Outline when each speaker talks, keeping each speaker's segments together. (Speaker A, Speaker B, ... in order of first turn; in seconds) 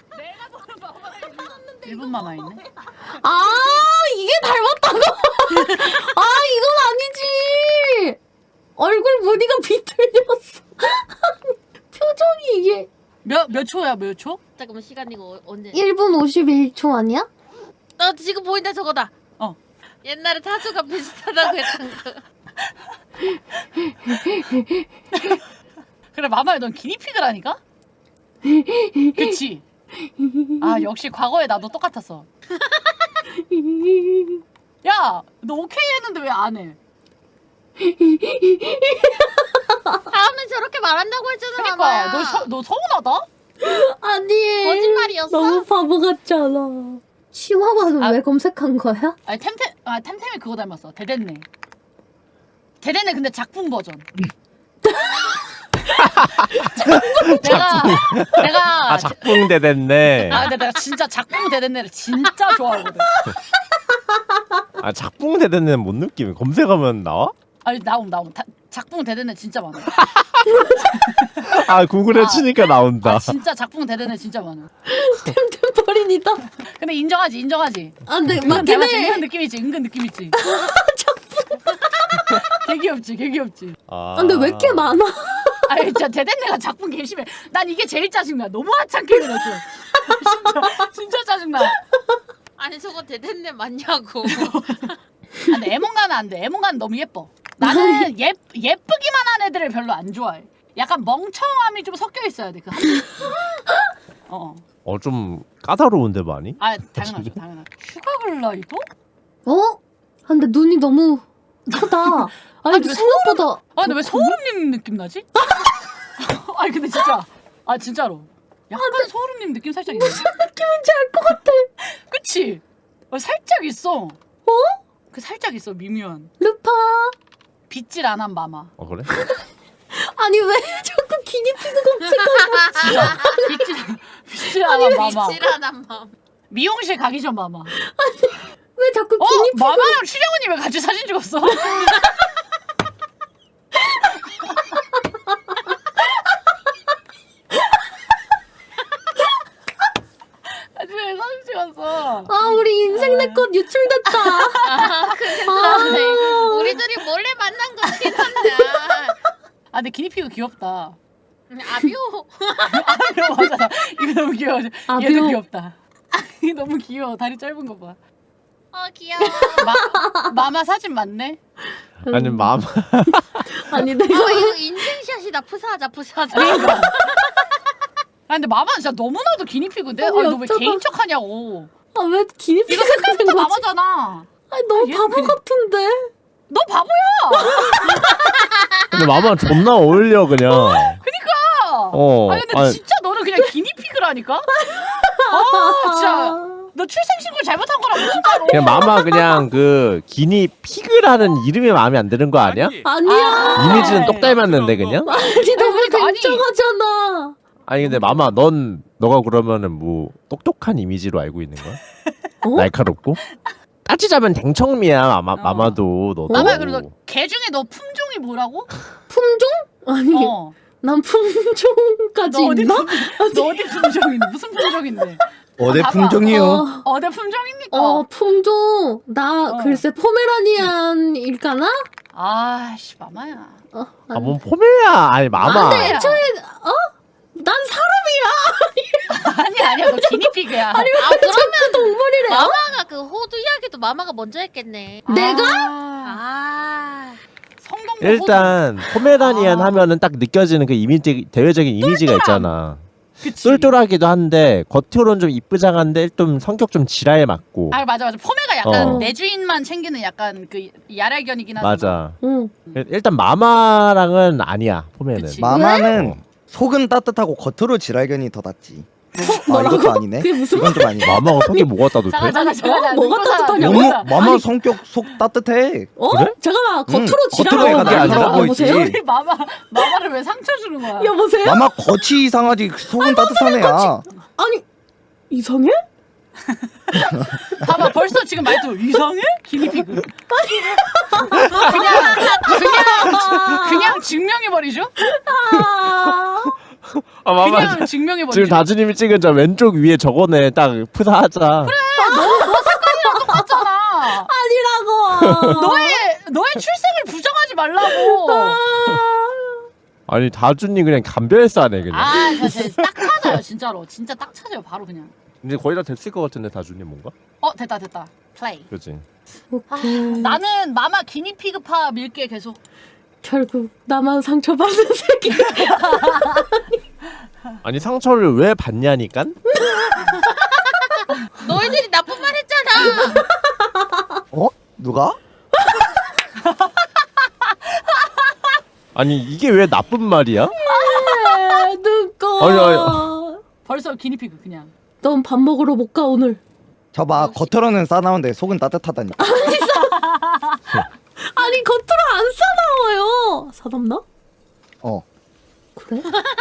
Speaker A: 0.1-2.6, 5.6-5.9, 13.2-14.4, 21.4-21.9, 25.1-25.4, 26.1-27.6, 29.1-29.6, 30.6-32.3, 34.8-36.8, 41.5-43.3, 49.3-51.5, 52.8-54.1, 57.4-59.5, 60.2-63.1, 67.6-69.9, 70.9-74.7, 76.6-80.4, 82.4-83.8, 85.7-91.8, 94.2-94.9, 95.5-103.4, 104.3-104.6, 106.6-108.9, 111.7-115.3, 116.2-120.3, 121.8-124.2, 125.1-126.3, 127.7-128.7, 132.9-135.5, 136.5-137.7, 139.2-141.9, 150.8-153.5, 154.1-157.1, 157.8-159.0, 159.7-161.0, 162.6-168.0, 169.6-171.4, 176.3-177.1, 178.3-181.7, 182.7-185.4, 186.5-187.7, 190.5-194.5, 195.3-199.4, 203.0-204.4, 205.5-206.5, 207.8-208.3, 215.3-215.8, 216.3-218.7, 220.1-220.6, 222.3-228.1, 229.5-229.8, 232.1-233.6, 235.4-236.3, 239.1-241.0, 242.6-242.8, 245.1-246.2, 247.6-248.6, 249.1-249.9, 252.1-252.4, 253.2-253.7, 257.7-262.0, 265.1-265.5, 272.2-274.2, 278.5-281.2, 286.5-290.1, 291.6-294.9, 297.4-298.7, 301.7-304.3, 305.6-308.6, 311.9-315.1, 317.4-318.7, 319.7-322.6, 331.5-331.8, 332.8-333.0, 340.7-341.7, 343.7-344.7, 349.8-350.6
Speaker B: 1.3-8.2, 8.8-12.9, 15.7-17.3, 23.9-24.9, 28.4-29.3, 30.2-30.8, 33.4-34.4, 37.8-40.1, 43.6-49.2, 54.9-58.2, 70.5-70.8, 74.9-76.5, 78.1-79.3, 80.3-82.5, 84.2-85.8, 90.0-90.9, 91.6-92.0, 97.6-98.1, 109.5-114.4, 118.7-119.1, 119.9-121.7, 124.5-124.8, 126.4-127.2, 129.1-129.4, 129.9-133.5, 137.7-140.0, 152.3-154.8, 155.4-156.8, 164.9-165.4, 169.2-170.3, 172.1-172.5, 173.1-174.8, 176.4-177.1, 180.0-180.8, 181.9-183.6, 184.5-186.1, 187.3-188.1, 194.5-196.7, 198.1-199.4, 202.8-204.3, 205.0-207.4, 212.4-212.7, 216.3-216.6, 219.1-224.3, 226.2-226.9, 227.7-231.9, 233.7-234.4, 235.4-242.6, 245.1-245.7, 251.9-252.4, 258.7-259.1, 262.2-262.6, 265.5-265.9, 269.2-274.7, 276.0-278.9, 280.9-281.9, 283.0-284.6, 285.3-285.8, 290.3-294.0, 295.1-296.5, 302.0-303.5, 304.1-306.0, 307.8-309.6, 319.5-320.4, 323.2-326.7, 329.5-330.2, 332.9-334.2, 340.5-343.4, 345.0-346.4, 349.2-350.1, 351.2-354.0, 355.8-356.1
Speaker C: 14.6-15.8, 18.0-19.3, 20.1-22.2, 32.7-33.1, 40.1-42.5, 44.6-45.6, 92.6-94.9, 132.4-133.7, 134.7-136.1, 154.6-159.2, 161.5-163.3, 168.7-169.7, 174.1-177.2, 240.9-245.3, 246.1-247.2, 331.4-333.2
Speaker D: 55.9-60.6, 64.8-67.3, 69.9-70.5, 71.4-73.3, 83.9-85.0, 104.8-107.4, 128.8-129.1, 172.1-173.4, 188.9-191.0, 191.9-192.8, 198.5-202.9, 203.6-205.1, 207.7-211.8, 212.5-213.2, 213.8-217.0, 234.1-236.0, 248.0-257.9, 258.6-259.1, 261.6-262.2, 262.8-266.2, 271.0-272.4, 276.1-276.4, 277.5-278.5, 291.4-291.9, 293.1-293.6, 296.9-301.8, 305.1-305.7, 310.1-313.4, 315.4-317.1, 318.7-319.0, 327.6-329.4, 338.9-340.6, 342.4-343.1
Speaker E: 225.6-226.7, 265.4-268.9, 269.5-271.2, 273.6-275.9, 276.9-279.0, 281.4-284.1, 334.3-335.2, 346.9-349.2